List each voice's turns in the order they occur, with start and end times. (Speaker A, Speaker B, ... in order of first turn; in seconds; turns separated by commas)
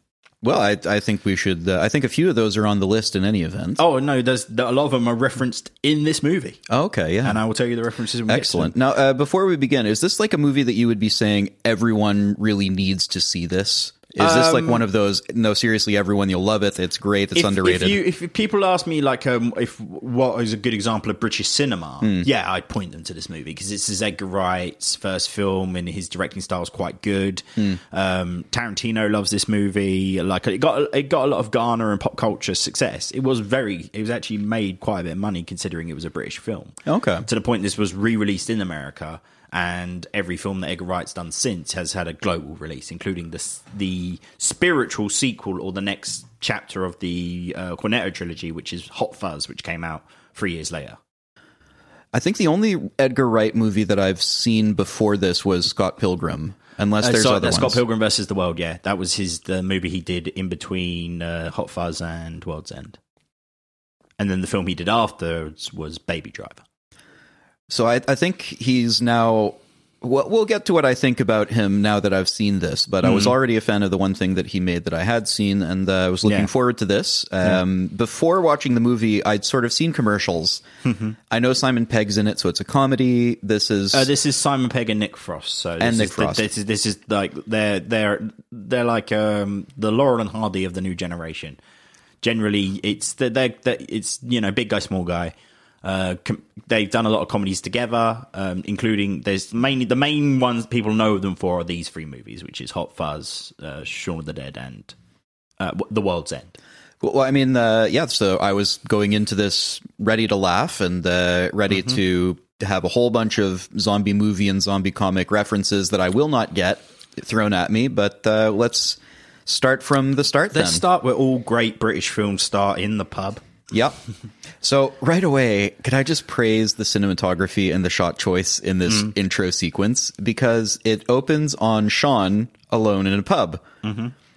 Speaker A: 0.4-3.8, Speaker B: 3.8-6.6, Speaker A: 6.7-7.4, Speaker B: 7.2-8.7, Speaker A: 8.3-18.0, Speaker B: 14.2-14.8, Speaker B: 17.3-51.0, Speaker A: 36.9-37.2, Speaker A: 52.1-57.8, Speaker B: 57.0-63.0, Speaker B: 64.2-66.6, Speaker A: 67.7-80.6, Speaker B: 73.0-73.3, Speaker B: 76.2-76.5, Speaker B: 80.8-81.1, Speaker A: 81.3-84.1, Speaker B: 83.9-91.6, Speaker A: 85.8-86.5, Speaker B: 92.2-104.9, Speaker B: 105.6-106.6, Speaker A: 107.0-120.8, Speaker B: 120.5-123.4, Speaker A: 123.7-124.0, Speaker A: 124.6-133.6, Speaker B: 133.8-134.1